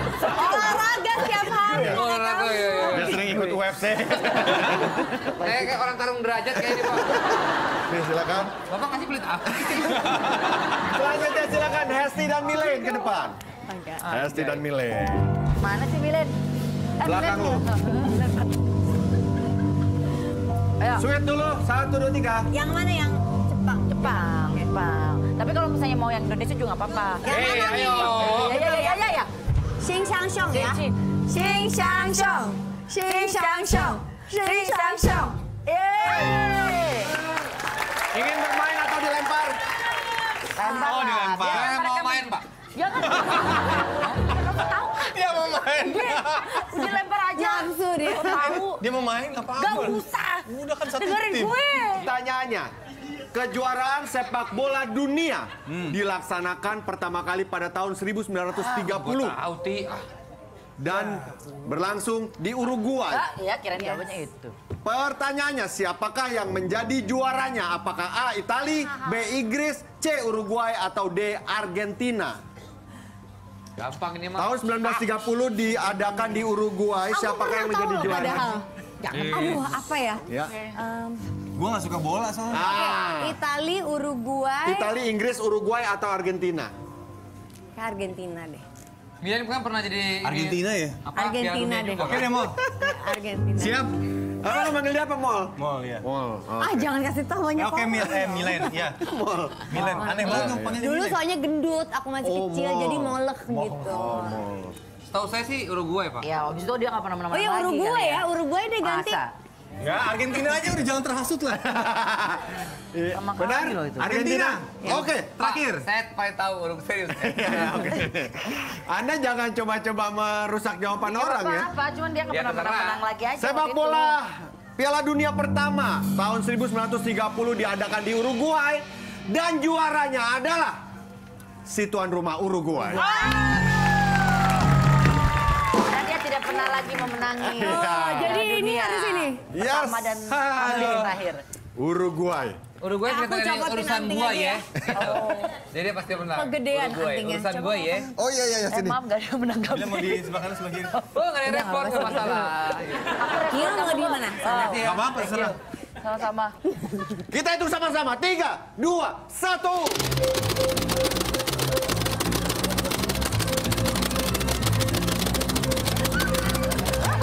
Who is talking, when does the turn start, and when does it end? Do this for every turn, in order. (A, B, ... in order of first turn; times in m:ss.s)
0:00.2-0:03.1 A
0:01.7-0:02.0 B
0:01.7-0:03.3 C
0:02.9-0:05.2 B
0:05.4-0:07.2 C
0:07.9-0:08.6 B
0:08.7-0:10.4 C
0:10.7-0:13.4 B
0:13.7-0:14.0 A
0:14.0-0:14.6 C
0:14.1-0:15.3 B
0:15.6-0:16.4 D
0:17.0-0:18.4 D
0:17.0-0:17.7 B
0:20.8-0:21.0 D
0:20.9-0:22.5 B
0:22.5-0:24.0 A
0:23.9-0:29.3 D
0:27.2-0:29.2 A
0:27.2-0:28.6 C
0:29.8-0:35.3 A
0:30.5-0:31.0 D
0:31.5-0:32.4 D
0:33.0-0:37.2 D
0:38.1-0:39.6 B
0:40.5-0:48.8 D
0:40.6-0:41.0 A
0:40.7-0:41.7 E
0:41.4-0:42.4 C
0:45.0-0:46.7 E
0:46.8-0:48.6 A
0:48.5-0:51.6 E
0:49.6-0:52.1 D
0:51.9-0:52.7 B
0:53.3-0:59.4 B
0:55.7-0:56.0 E
0:58.6-1:00.0 C
1:00.8-1:03.2 B
1:00.9-1:01.2 E
1:03.1-1:04.5 D
1:04.8-1:12.4 B
1:13.8-1:14.7 C
1:14.4-1:18.6 B
1:17.1-1:21.2 A
1:19.1-1:19.7 C
1:20.3-1:20.5 B
1:21.5-1:22.7 E
1:22.5-1:23.4 B
1:22.6-1:24.9 A
1:24.6-1:26.7 B
1:27.8-1:28.6 A
1:29.2-1:32.4 C
1:30.2-1:31.0 E
1:31.1-1:33.8 A
1:32.0-1:32.8 E
1:33.6-1:34.0 E
1:34.4-1:36.9 B
1:35.6-1:36.0 E
1:36.6-1:38.7 A
1:37.5-1:39.0 E
1:39.0-1:40.8 B
1:39.7-1:41.2 E
1:39.8-1:44.4 A
1:42.2-1:43.2 B
1:43.7-1:44.8 B
1:45.1-1:46.3 C
1:46.2-1:48.3 D
1:47.3-1:49.2 A
1:48.8-1:49.3 D
1:49.8-1:51.8 E
1:51.7-1:55.6 B
1:53.1-1:54.1 D
1:54.0-1:55.0 E
1:54.8-1:55.1 A
1:55.4-1:57.9 C
1:57.1-2:01.7 B
2:01.0-2:04.2 D
2:02.3-2:03.0 C
2:03.4-2:10.8 B
2:11.6-2:13.2 B
2:13.0-2:13.3 D
2:15.8-2:21.4 D
2:17.4-2:18.4 B
2:17.4-2:19.4 A
2:19.5-2:21.0 B
2:20.3-2:21.1 E
2:21.8-2:22.6 B
2:22.8-2:28.1 C
2:23.0-2:24.6 A
2:24.9-2:25.5 D
2:25.2-2:25.4 A
2:26.3-2:28.1 A
2:28.1-2:29.0 B
2:28.7-2:30.2 D
2:29.7-2:31.0 E
2:31.0-2:33.2 C
2:31.4-2:32.5 A
2:33.1-2:36.5 D
2:33.4-2:34.9 A
2:34.4-2:35.5 C
2:34.8-2:35.6 E
2:37.3-2:40.0 B